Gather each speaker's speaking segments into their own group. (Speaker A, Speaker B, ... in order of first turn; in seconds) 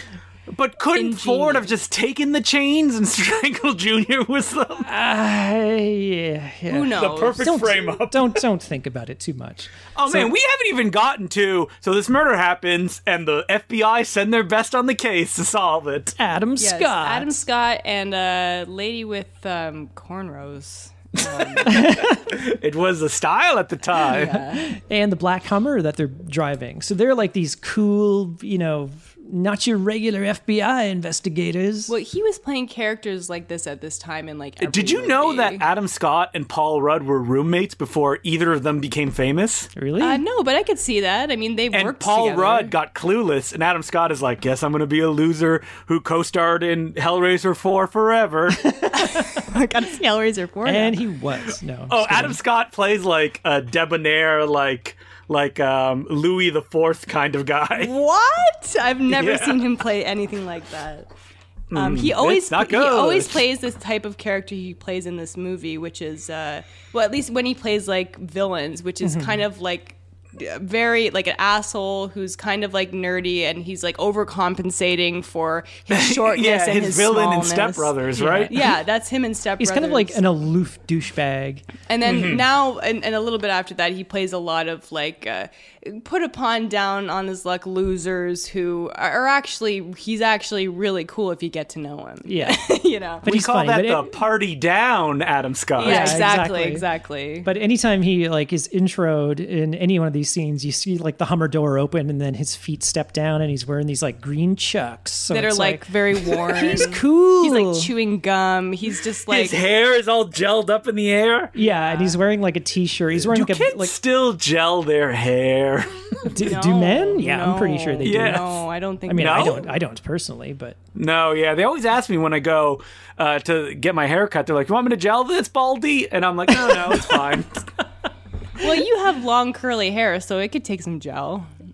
Speaker A: 0.5-4.9, 7.0-8.4, 9.9-16.1, 21.3-24.4, 34.6-39.7, 41.7-48.8, 51.9-57.9, 59.1-59.7, 61.7-63.4, 75.9-78.6, 82.0-82.4, 93.3-96.2, 109.3-111.5, 113.2-116.3, 118.0-118.5, 119.2-119.6, 120.9-127.6
Speaker B: 0.9-1.7, 6.7-7.4, 16.6-21.8, 24.0-24.7, 31.9-35.6, 40.0-42.7, 48.9-51.0, 57.8-61.1, 61.7-80.2, 81.9-93.3, 95.8-97.5, 105.3-109.6, 111.6-112.2, 116.4-119.7, 128.6-131.5
Speaker C: 4.8-10.3, 16.2-17.4, 21.6-22.2, 24.5-31.9, 39.7-40.2, 50.6-52.4, 69.0-69.4, 78.2-78.7, 79.6-81.7, 92.3-92.6, 93.2-94.1, 95.8-96.8, 97.4-107.9, 111.5-113.9, 116.3-118.5, 119.1-120.8